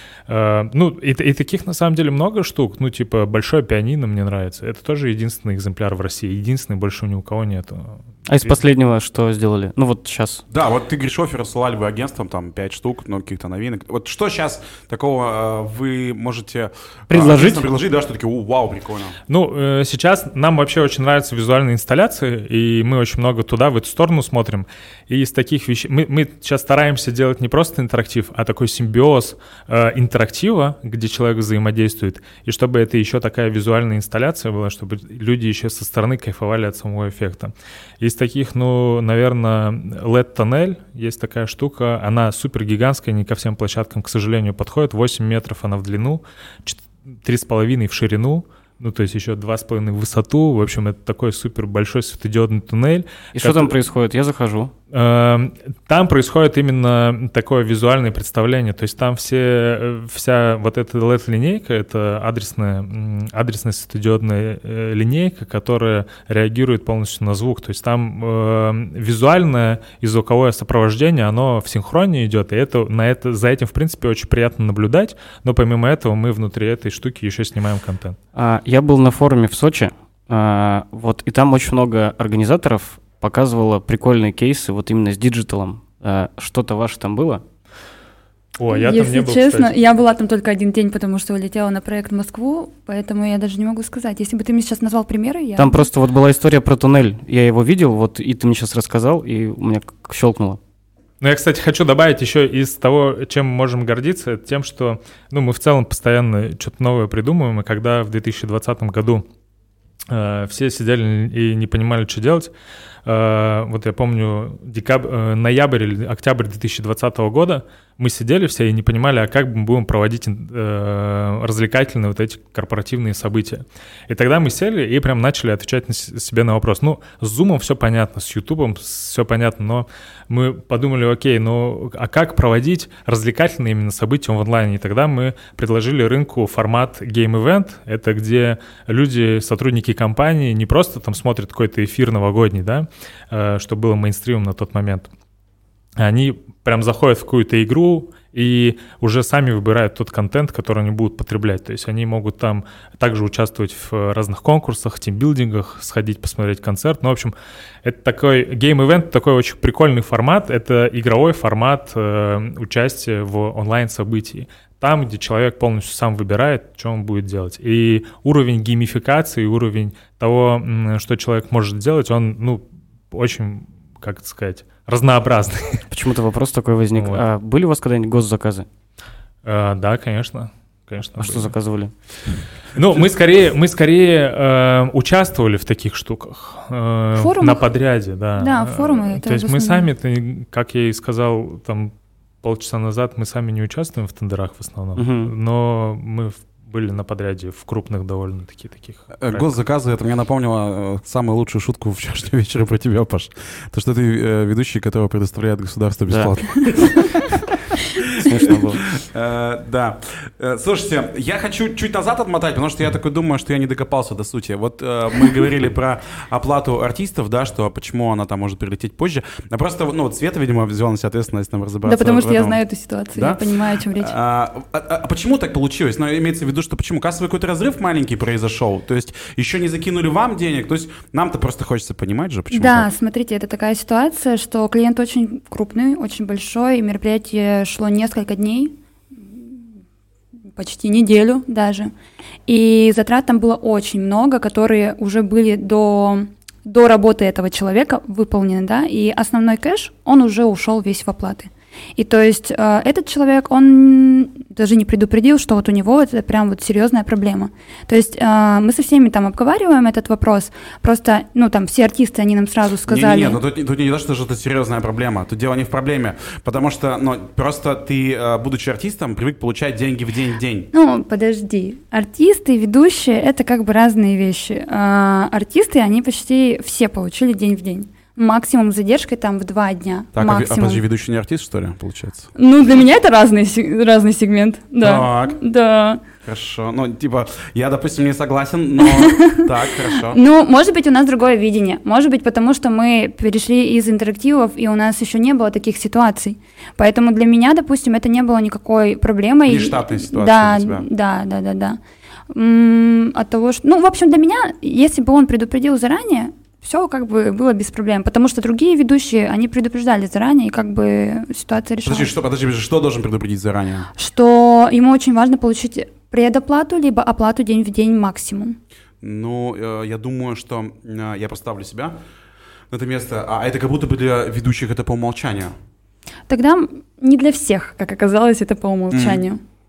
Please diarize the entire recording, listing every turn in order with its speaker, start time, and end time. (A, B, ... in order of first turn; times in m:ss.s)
0:00.3-0:08.5 A
0:08.3-0:10.4 B
0:10.5-0:19.2 C
0:17.1-0:17.6 B
0:19.3-0:53.7 A
0:53.3-0:54.7 B
0:54.9-1:18.2 A
1:18.3-1:27.4 B
1:28.6-1:29.7 A
1:28.7-1:35.9 D
1:35.6-1:40.6 B
1:41.2-1:49.2 A
1:50.1-1:52.5 A
1:53.0-2:25.1 A
2:26.0-2:55.8 A
2:55.9-2:58.7 B
2:56.9-2:57.2 A
2:59.4-3:01.5 A
3:01.2-3:01.9 B
3:02.7-3:19.5 A
3:07.2-3:07.6 D
3:08.4-3:09.9 D
3:15.0-3:15.3 B
3:19.2-3:27.3 C
3:26.1-3:26.9 B
3:28.0-3:42.6 C
3:28.2-3:28.8 B
3:41.8-3:44.1 D
3:43.1-3:52.9 C
3:52.5-3:59.7 D
4:00.5-4:01.9 D
4:02.5-4:23.4 D
4:22.8-4:30.7 C
4:30.7-4:40.8 D
4:40.1-4:42.3 C
4:42.4-4:46.0 D
4:44.8-4:45.4 C
4:46.2-4:50.2 C
4:48.8-4:49.4 D
4:50.1-5:01.8 D
4:59.4-5:00.8 C
5:02.3-5:12.1 D
5:11.8-5:13.9 C
5:14.0-5:18.6 D
5:19.0-5:22.0 C
5:22.7-5:25.5 C
5:26.3-5:29.4 D
5:28.9-5:29.2 C